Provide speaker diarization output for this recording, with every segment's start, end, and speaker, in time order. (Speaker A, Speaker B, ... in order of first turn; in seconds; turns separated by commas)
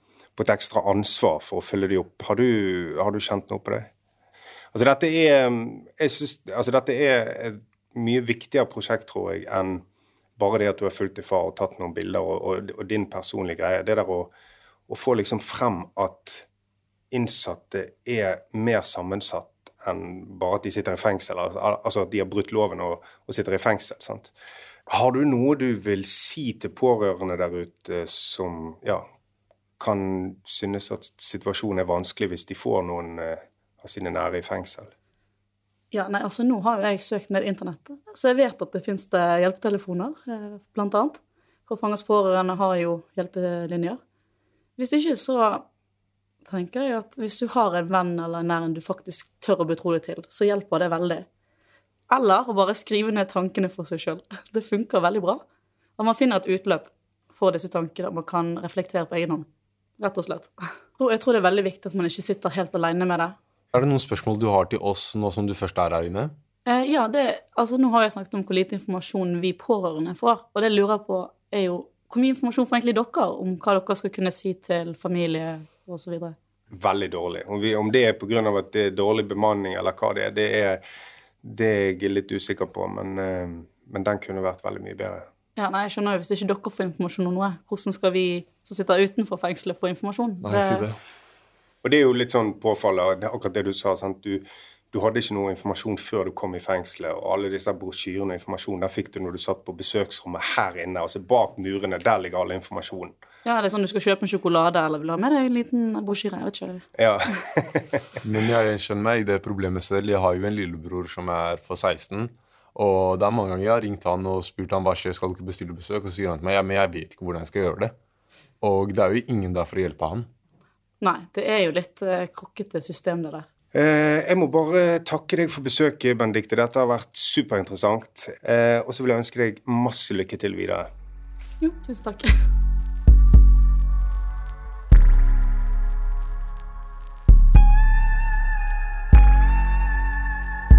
Speaker A: 0.3-3.9, Speaker A: 4.7-9.8, Speaker A: 10.4-14.3, Speaker A: 14.9-16.4, Speaker A: 17.1-24.3, Speaker A: 24.9-29.1, Speaker A: 29.8-34.9, Speaker B: 35.9-44.0, Speaker B: 44.8-45.6, Speaker B: 46.5-51.2, Speaker B: 52.1-55.4, Speaker B: 56.0-59.5, Speaker B: 60.0-63.4, Speaker C: 63.7-66.3, Speaker B: 66.7-76.3, Speaker A: 76.7-80.8, Speaker A: 81.4-85.2, Speaker B: 85.6-90.9, Speaker C: 90.4-91.0, Speaker A: 91.8-103.1, Speaker B: 103.4-106.8, Speaker A: 107.0-108.0, Speaker C: 108.2-117.9, Speaker C: 118.6-120.3, Speaker B: 121.0-123.5, Speaker A: 123.7-130.9, Speaker B: 131.6-132.4